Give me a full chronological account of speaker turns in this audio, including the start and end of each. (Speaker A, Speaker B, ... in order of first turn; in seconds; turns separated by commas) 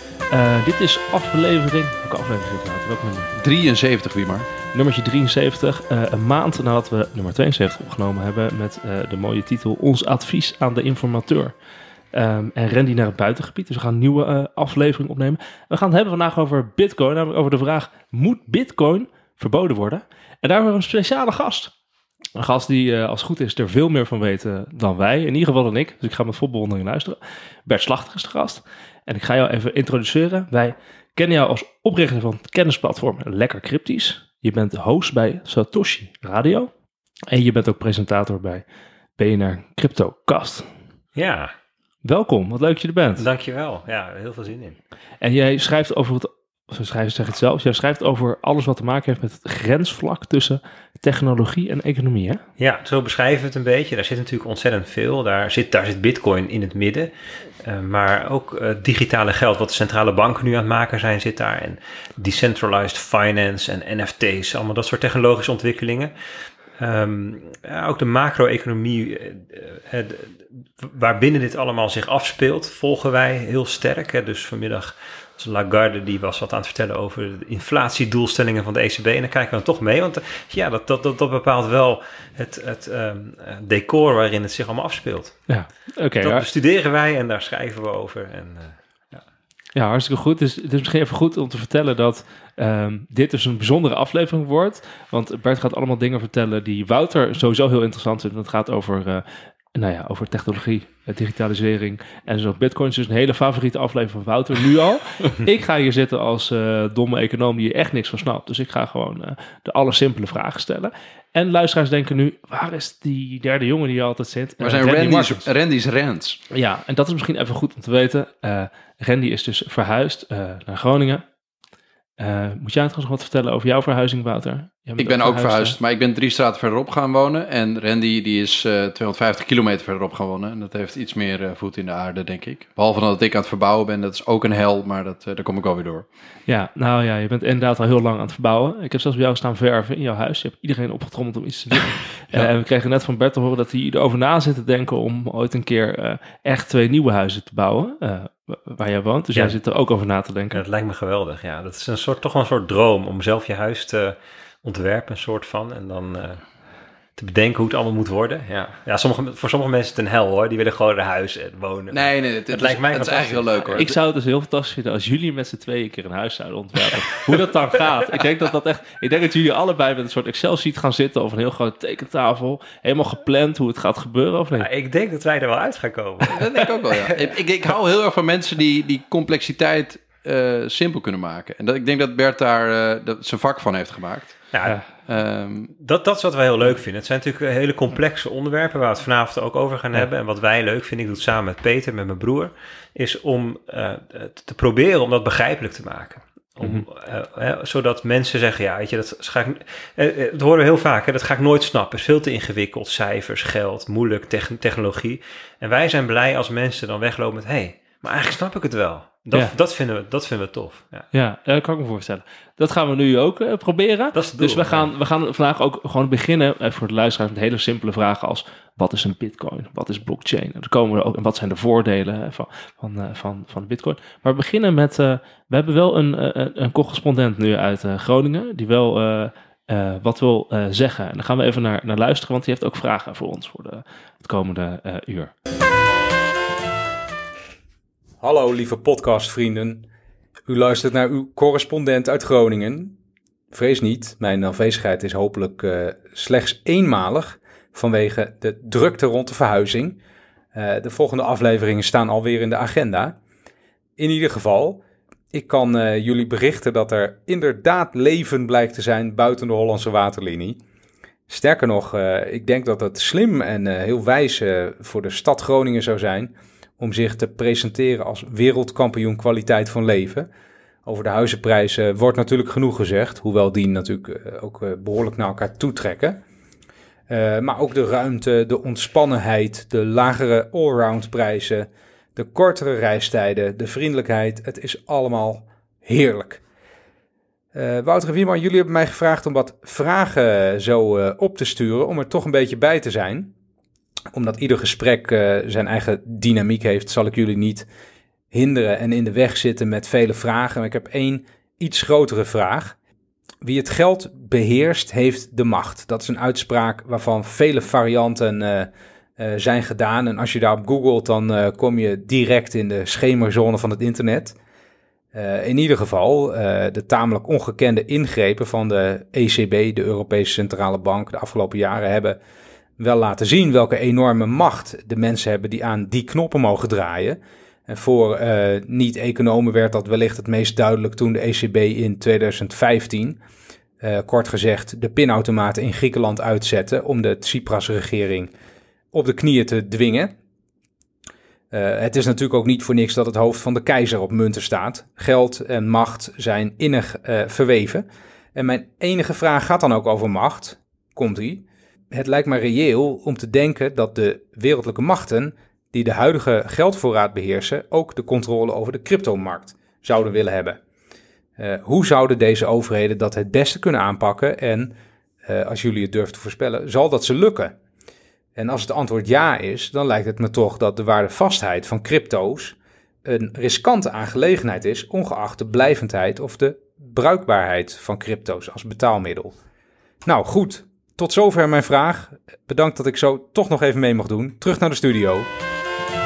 Speaker A: 0.3-3.4, Speaker B: 3.4-4.5, Speaker A: 4.7-11.5, Speaker A: 12.1-21.7, Speaker A: 22.3-36.7, Speaker A: 37.3-38.6, Speaker A: 39.2-40.7, Speaker C: 41.1-41.5, Speaker A: 42.0-43.2, Speaker C: 43.2-44.8, Speaker A: 45.2-52.4, Speaker C: 52.6-57.1, Speaker C: 57.6-66.1, Speaker C: 66.8-85.5, Speaker A: 85.5-86.4, Speaker C: 86.2-89.2, Speaker A: 89.7-115.5, Speaker B: 114.6-116.4, Speaker A: 116.5-121.2, Speaker A: 122.2-125.8, Speaker B: 125.0-136.0, Speaker A: 136.5-150.6, Speaker C: 150.5-156.4, Speaker C: 157.2-163.9, Speaker B: 161.9-163.9, Speaker A: 163.7-174.7, Speaker C: 174.6-176.4, Speaker B: 176.3-184.5, Speaker C: 184.5-184.8, Speaker B: 185.1-185.7, Speaker C: 185.8-211.1, Speaker A: 211.1-235.3, Speaker C: 214.1-214.9, Speaker D: 238.2-239.9, Speaker D: 240.5-242.9, Speaker D: 243.5-250.0, Speaker D: 250.5-253.2, Speaker D: 254.0-260.6, Speaker D: 261.3-270.3, Speaker D: 270.8-276.2, Speaker D: 277.1-286.4, Speaker D: 287.5-293.3, Speaker D: 294.1-297.7, Speaker D: 298.3-302.8, Speaker D: 303.4-314.4, Speaker D: 315.1-322.2, Speaker D: 322.8-333.2, Speaker D: 333.8-338.3, Speaker D: 338.9-340.1, Speaker D: 341.5-360.6, Speaker D: 361.4-367.6, Speaker D: 368.4-379.3, Speaker D: 380.0-385.3